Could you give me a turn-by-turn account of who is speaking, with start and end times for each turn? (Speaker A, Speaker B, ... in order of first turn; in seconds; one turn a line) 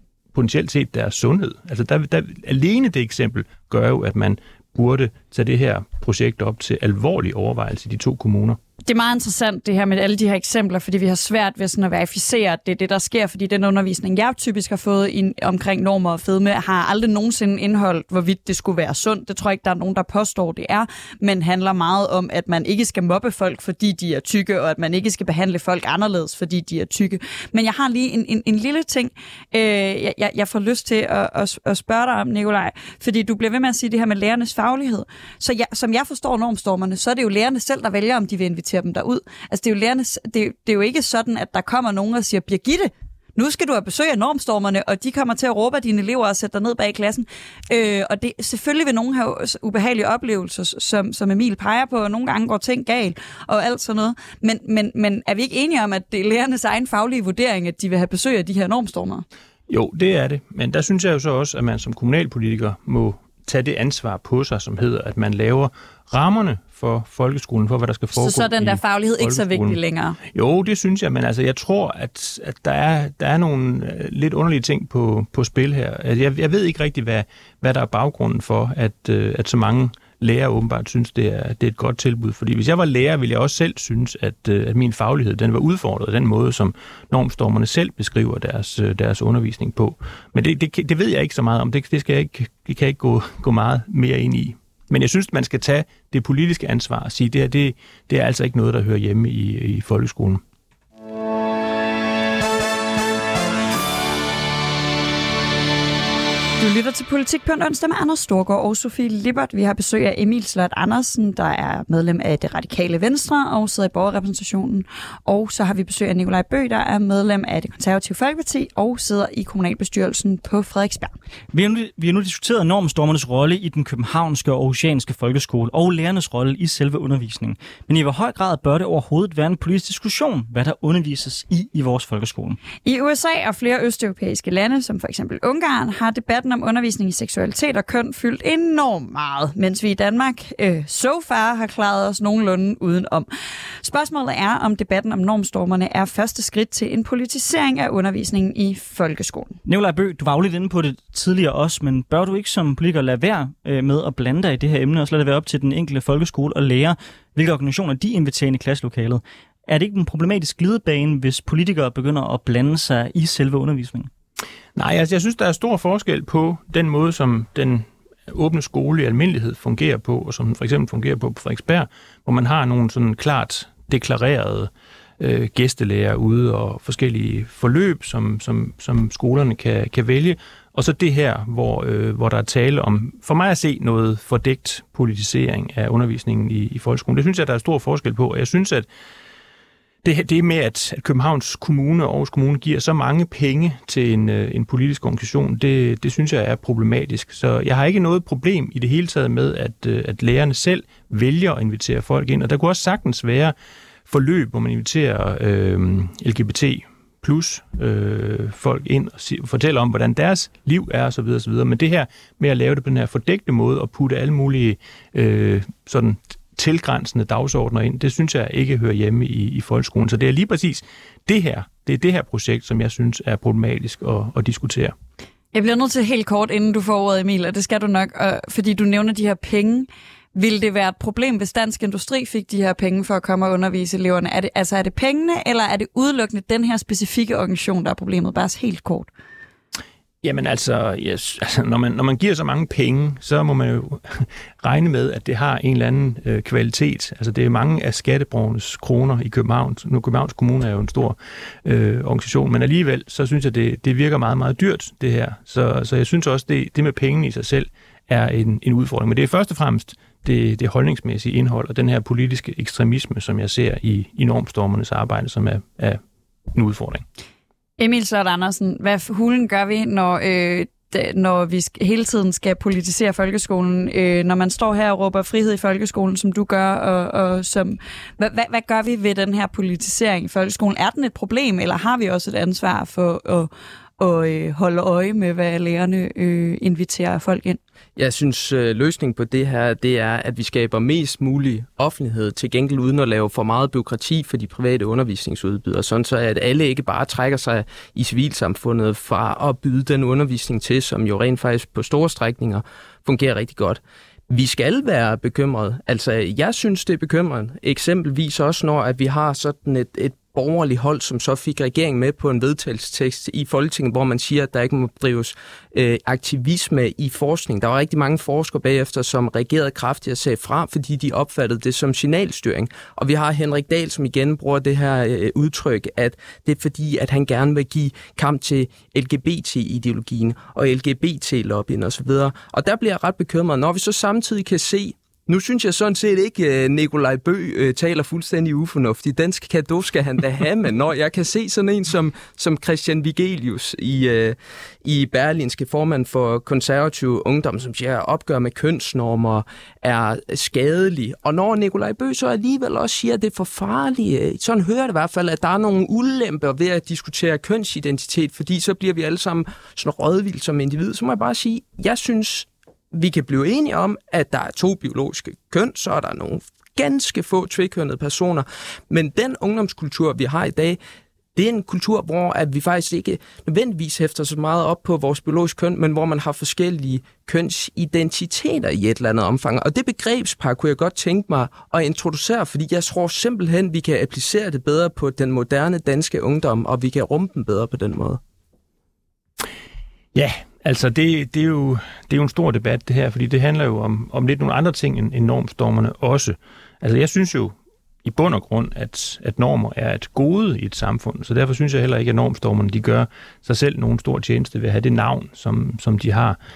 Speaker A: 0.3-8.6
Speaker B: 8.9-59.2
Speaker A: 59.7-69.8
Speaker B: 68.1-70.2
Speaker A: 70.3-100.4
Speaker B: 106.6-121.1
Speaker C: 121.5-132.6
Speaker B: 132.8-143.3
Speaker B: 143.8-149.6
Speaker C: 149.7-164.1
Speaker A: 164.7-188.9
Speaker A: 190.0-203.6
Speaker A: 204.1-224.9
Speaker B: 225.5-239.1
Speaker A: 240.2-266.0
Speaker A: 266.5-267.0
Speaker B: 267.8-287.6
Speaker D: 287.9-370.8
Speaker D: 371.3-388.2
Speaker A: 390.1-406.4